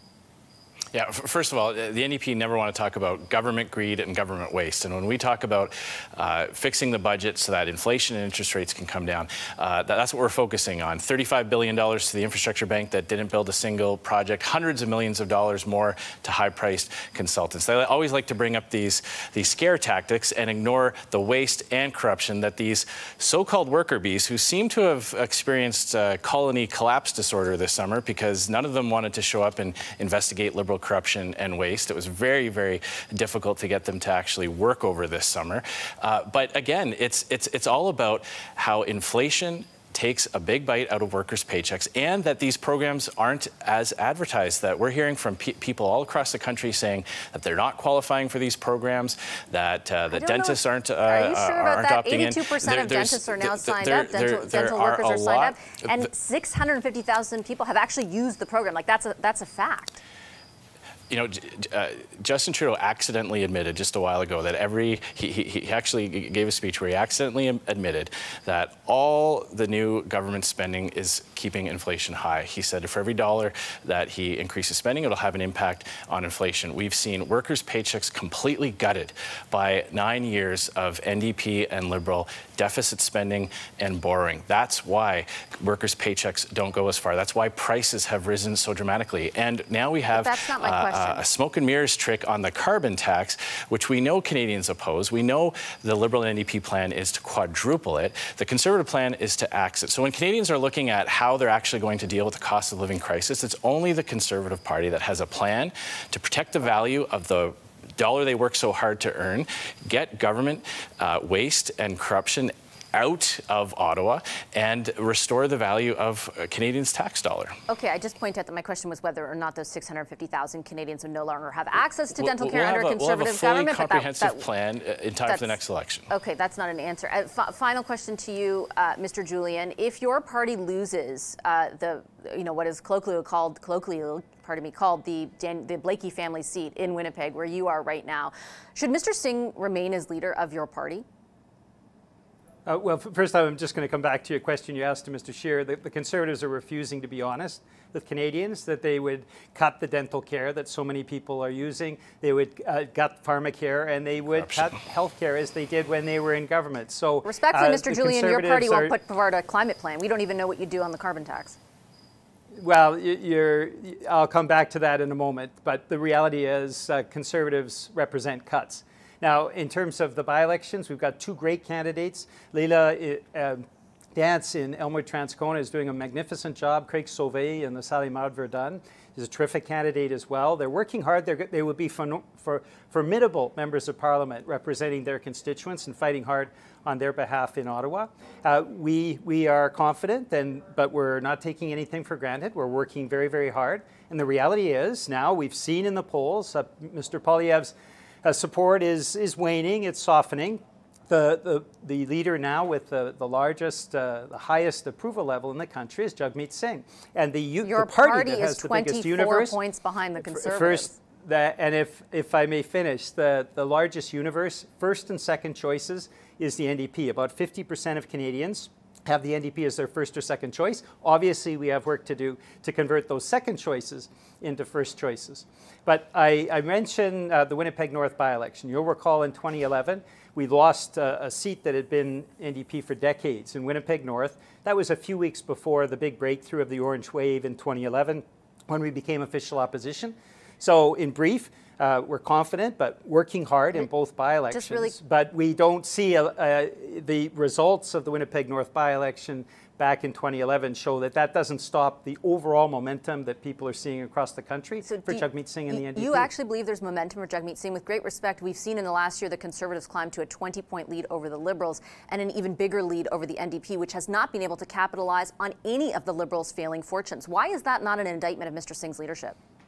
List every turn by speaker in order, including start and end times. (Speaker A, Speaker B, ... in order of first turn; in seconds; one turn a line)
Speaker A: 0.9-56.0
Speaker B: 50.1-60.0
Speaker A: 61.1-117.5
Speaker B: 90.1-91.2
Speaker B: 117.7-124.4
Speaker A: 122.2-126.1
Speaker B: 125.2-125.5
Speaker B: 126.1-141.0
Speaker C: 142.7-158.9
Speaker B: 157.2-161.6
Speaker C: 162.6-173.6
Speaker C: 174.1-209.6
Speaker B: 207.6-210.9
Speaker C: 210.2-256.3
Speaker B: 244.5-244.9
Speaker B: 254.8-269.4